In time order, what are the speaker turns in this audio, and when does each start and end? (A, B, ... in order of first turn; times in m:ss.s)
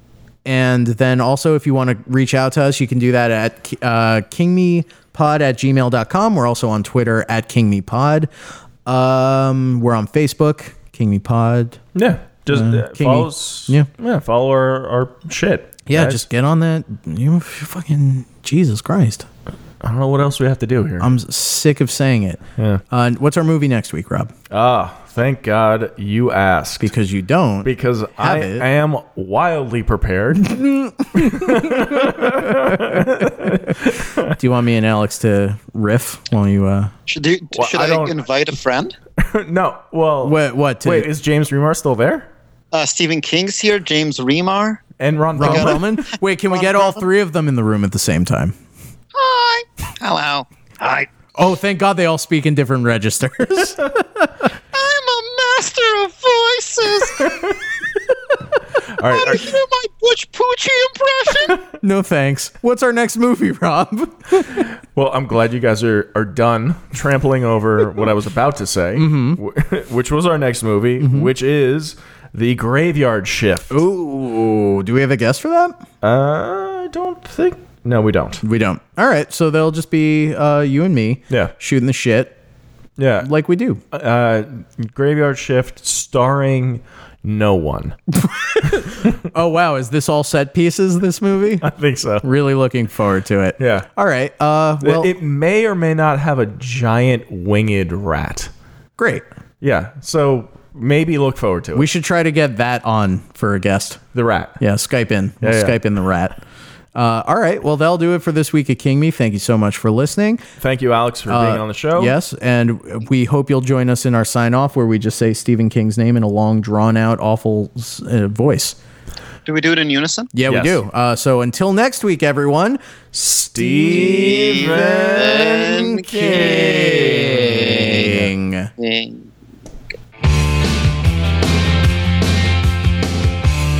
0:00.4-0:08.3 A
0:08.8-0:11.8 A
0:11.9-0:16.2 B
0:12.5-0:13.9 A
0:15.9-0:19.2 A
0:19.8-0:21.1 B
0:21.0-0:24.3 A
0:22.6-0:22.8 B
0:24.5-0:26.9 B
0:26.8-0:28.6 A
0:27.6-0:30.5 B
0:30.4-0:33.3 A
0:31.1-0:34.4 B
0:34.3-0:36.9 A
0:37.1-0:38.9 C
0:37.5-0:38.2 B
0:39.2-0:42.3 B
0:40.2-0:41.1 A
0:42.7-0:44.9 C
0:45.0-0:45.8 B
0:45.4-0:48.5 A
0:45.4-0:45.8 C
0:46.5-0:47.0 C
0:49.1-0:51.1 C
0:51.4-0:54.3 A
0:54.7-0:57.3 C
0:58.9-0:59.5 B
0:59.0-1:01.6 C
1:01.7-1:04.6 A
1:04.6-1:13.8 B
1:08.9-1:09.4 A
1:11.0-1:11.3 A
1:13.7-1:15.8 A
1:16.0-1:18.4 B
1:18.4-1:22.3 A
1:23.0-1:23.3 B
1:23.2-1:23.8 A
1:23.9-1:28.0 B
1:28.2-1:31.7 A
1:31.6-1:32.2 B
1:32.2-1:35.1 A
1:33.6-1:33.9 B
1:34.8-1:38.5 B
1:39.0-1:39.2 A
1:39.6-1:41.9 B
1:41.7-1:44.0 A
1:44.1-1:44.6 B
1:44.6-1:46.4 A
1:45.4-1:45.8 B
1:46.9-1:50.4 A
1:50.6-1:52.2 B
1:51.3-1:58.8 A
1:59.4-2:00.3 C
2:00.3-2:08.7 A
2:00.5-2:00.8 B
2:03.6-2:08.2 B
2:03.9-2:06.7 C
2:08.8-2:09.3 C